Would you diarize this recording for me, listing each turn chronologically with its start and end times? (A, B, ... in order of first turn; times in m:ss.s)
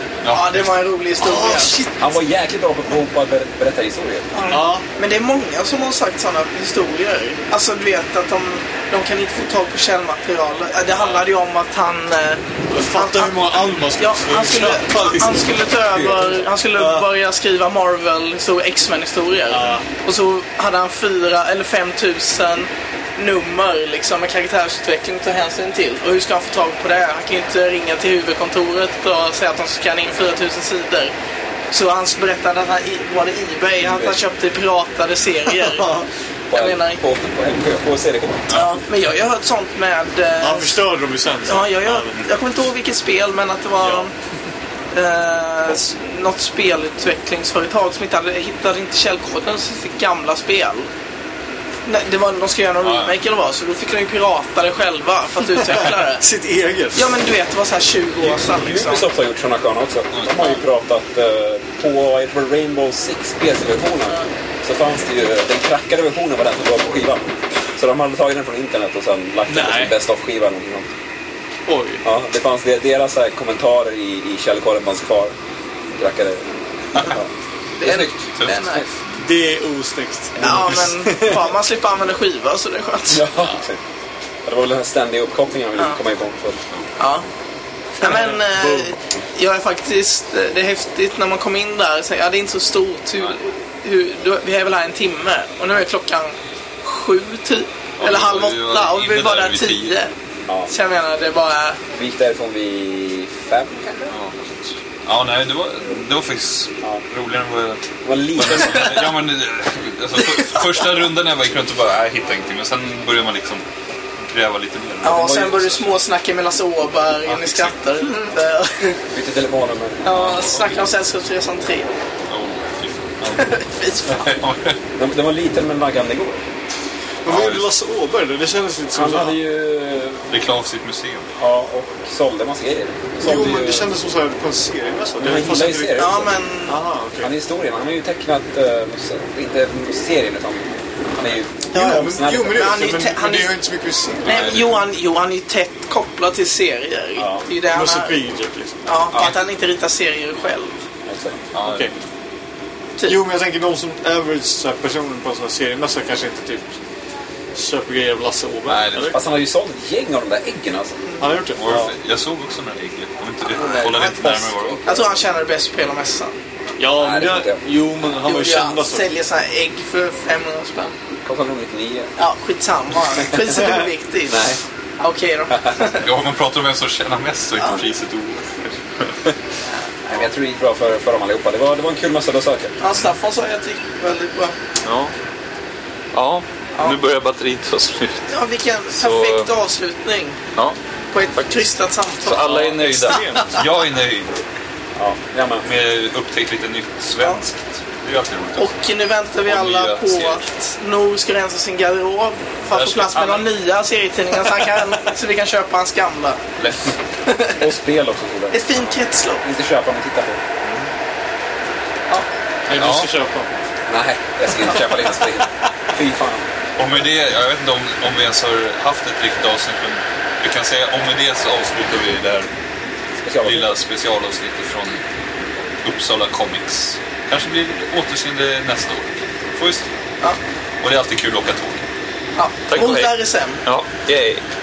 0:00.2-0:00.8 A
0:00.3-0:01.9 B
0:01.2-0:01.9 C
0:02.0-0:04.3 D
0:04.3-0:31.1 B
0:04.5-0:04.8 C
0:10.9-0:11.2 C
0:12.7-0:15.6 C
0:15.9-0:16.4 D
0:16.7-0:17.1 C
0:19.5-0:19.8 C
0:31.7-0:36.0 B
0:33.8-0:34.2 D
0:35.7-0:36.1 C
0:36.5-0:38.5 D
0:36.5-0:37.0 B
0:38.5-0:38.8 A
0:38.5-0:40.8 B
0:40.4-0:42.1 C
0:41.4-0:44.1 B
0:43.8-0:44.1 C
0:44.9-0:50.9 B
0:51.8-0:56.2 B
0:52.8-0:53.1 A
0:55.6-0:57.1 C
0:56.9-0:59.1 B
0:58.5-1:10.9 D
1:00.1-1:00.6 A
1:09.5-1:09.9 C
1:11.6-1:12.0 C
1:12.0-1:15.3 D
1:15.9-1:17.3 D
1:17.8-1:18.8 B
1:17.8-1:18.9 D
1:19.2-1:21.4 C
1:20.4-1:23.2 B
1:23.1-1:23.8 D
1:24.4-1:26.6 D
1:27.0-1:27.2 B
1:28.0-1:40.1 B
1:28.0-1:28.9 C
1:38.0-1:40.0 A
1:40.7-1:41.8 B
1:41.9-1:43.8 D
1:44.1-1:47.8 A
1:48.0-1:48.8 D
1:48.3-1:53.6 A
1:48.5-1:49.1 B
1:50.2-1:50.8 B
1:54.3-1:55.7 A
1:55.0-1:59.0 B
1:55.1-1:55.8 D
1:57.3-1:57.7 A
1:59.1-2:00.1 D
2:00.0-2:01.9 B
2:00.1-2:00.7 A
2:02.3-2:03.6 A
2:03.3-2:04.4 B
2:04.1-2:04.8 A
2:05.0-2:06.4 D
2:07.2-2:09.4 C
2:07.2-2:07.7 A
2:08.9-2:10.2 D
2:10.3-2:11.3 A
2:11.4-2:13.9 D
2:13.2-2:17.3 C
2:15.2-2:16.3 D
2:16.0-2:16.8 B
2:17.2-2:22.9 D
2:21.7-2:23.5 B
2:21.7-2:24.5 C
2:24.2-2:24.8 A
2:24.2-2:28.2 B
2:27.2-2:27.4 D
2:27.7-2:28.8 C
2:28.8-2:30.8 B
2:31.0-2:31.4 D
2:31.5-2:31.9 A
2:31.6-2:31.9 C
2:33.0-2:36.8 C
2:37.5-2:39.2 C
2:38.6-2:39.2 A
2:39.1-2:41.0 D
2:41.2-2:41.9 C
2:41.5-2:45.0 A
2:43.6-2:45.0 D
2:43.6-2:44.0 B
2:44.8-2:46.4 B
2:46.8-2:49.1 C
2:46.9-2:47.6 D
2:48.2-2:50.9 B
2:51.2-2:52.1 D
2:52.2-2:56.1 B
2:53.2-2:54.6 D
2:56.0-2:59.3 A
2:59.7-3:00.2 B
3:00.1-3:02.7 D
3:02.8-3:04.6 B
3:04.8-3:05.1 A
3:06.1-3:08.3 A
3:08.3-3:10.4 B
3:08.9-3:09.5 A
3:11.1-3:13.6 B
3:12.2-3:14.4 A
3:12.5-3:13.4 C
3:15.0-3:15.6 D
3:15.6-3:18.7 A
3:18.6-3:26.4 B
3:19.4-3:20.4 A
3:22.7-3:23.5 A
3:26.6-3:26.9 A
3:27.2-3:27.6 B
3:27.6-3:30.4 D
3:28.5-3:29.4 B
3:30.6-3:30.9 A
3:32.7-3:33.5 C
3:32.7-3:33.1 A
3:33.9-3:36.5 D
3:36.8-3:42.5 A
3:43.2-3:43.6 D
3:43.4-3:45.0 A
3:45.8-3:49.8 A
3:50.8-3:51.9 A
3:52.4-3:53.6 B
3:52.7-3:54.4 A